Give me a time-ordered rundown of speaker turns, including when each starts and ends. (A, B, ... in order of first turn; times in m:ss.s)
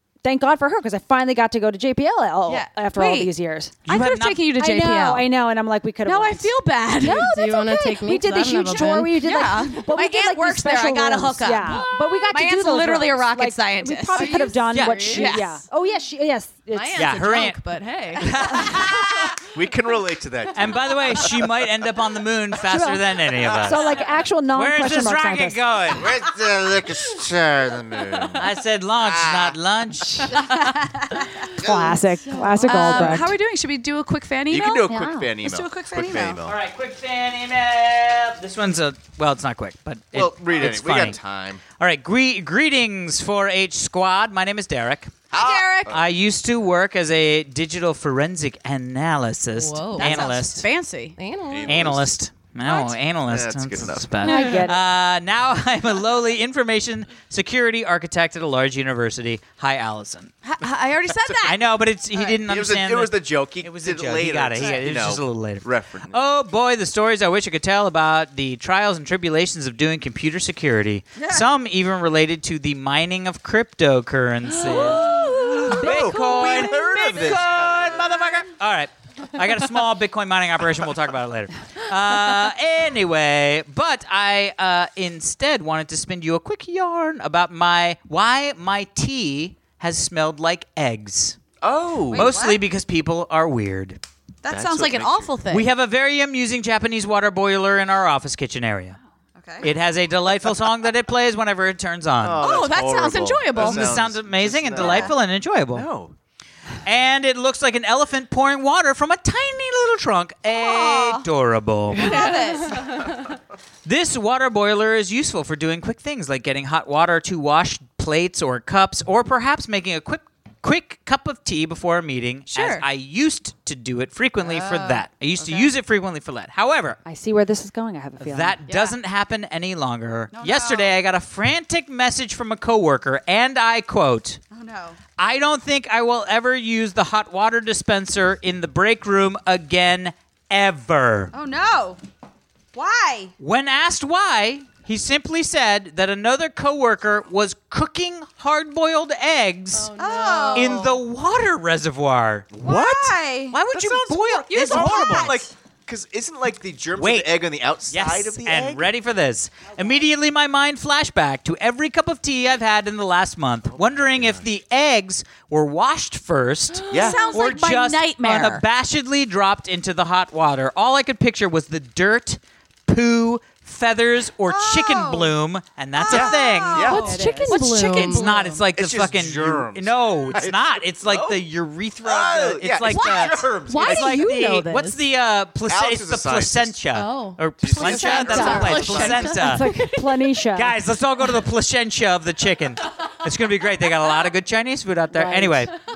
0:00.2-0:03.8 A
0:02.5-0:03.3 B
0:03.8-0:04.5 C
0:03.8-0:05.3 B
0:04.5-0:17.1 A
0:06.0-0:07.3 B
0:07.0-0:09.4 D
0:08.9-0:15.6 B
0:14.1-0:15.4 D
0:14.7-0:15.1 C
0:16.7-0:19.5 D
0:17.0-0:17.6 C
0:18.1-0:19.5 C
0:19.5-0:21.5 E
0:20.5-0:23.9 C
0:22.7-0:25.6 A
0:23.4-0:23.8 E
0:23.8-0:24.1 D
0:24.5-0:26.1 C
0:25.9-0:29.6 E
0:28.4-0:30.4 C
0:30.3-0:31.5 B
0:31.5-0:33.3 A
0:31.6-0:32.0 E
0:32.2-0:33.2 D
0:32.6-0:36.4 B
0:34.5-0:36.6 E
0:34.9-0:35.3 A
0:36.4-0:45.3 C
0:40.1-0:41.6 E
0:45.3-0:46.1 E
0:45.3-0:45.9 B
0:45.9-0:50.7 C
0:49.5-0:50.3 D
0:50.0-0:51.2 B
0:51.2-0:52.0 D
0:51.5-0:52.1 E
0:51.6-1:00.3 C
0:53.2-0:54.2 E
0:54.2-0:54.8 A
0:54.3-0:54.6 D
1:00.4-1:01.6 B
1:01.4-1:31.4 C
1:02.2-1:06.1 E
1:14.6-1:15.7 D
1:14.6-1:16.2 B
1:15.7-1:18.3 E
1:31.6-1:32.3 E
1:32.1-1:32.6 B
1:32.1-1:34.0 C
1:34.4-1:35.7 B
1:34.5-1:35.4 E
1:35.5-1:39.0 C
1:39.4-1:39.7 B
1:39.6-1:42.6 C
1:42.2-1:45.2 E
1:42.4-1:43.9 B
1:43.6-1:45.9 C
1:44.8-1:45.1 B
1:45.7-1:46.1 E
1:46.8-1:52.3 C
1:50.5-1:51.2 B
1:51.9-1:52.9 B
1:52.0-1:53.1 D
1:53.8-2:07.0 C
2:02.5-2:02.8 B
2:04.4-2:05.7 B
2:07.0-2:08.6 A
2:08.2-2:14.4 C
2:08.7-2:09.0 B
2:10.3-2:10.9 B
2:14.5-2:15.0 B
2:15.2-2:21.3 C
2:21.3-2:22.0 B
2:22.7-2:23.3 B
2:23.4-2:29.9 C
2:29.7-2:30.9 D
2:29.9-2:31.0 B
2:30.5-2:32.7 C
2:32.5-2:33.2 E
2:32.6-2:33.6 B
2:33.5-2:35.4 C
2:33.7-2:38.9 E
2:34.5-2:35.5 B
2:36.9-2:37.3 C
2:37.9-3:09.7 C
2:43.7-2:44.4 E
2:46.7-2:47.3 D
2:46.9-2:48.6 B
2:46.9-2:47.3 E
2:54.5-2:55.3 B
2:55.9-2:58.6 B
2:56.1-2:57.4 E
2:56.7-2:58.6 D
2:58.7-3:01.5 E
3:02.0-3:04.2 E
3:02.9-3:04.8 B
3:03.7-3:05.0 D
3:05.6-3:06.8 E
3:06.9-3:10.3 D
3:07.6-3:09.4 E
3:07.8-3:10.8 A
3:08.0-3:09.2 B
3:10.5-3:15.7 C
3:15.1-3:15.7 A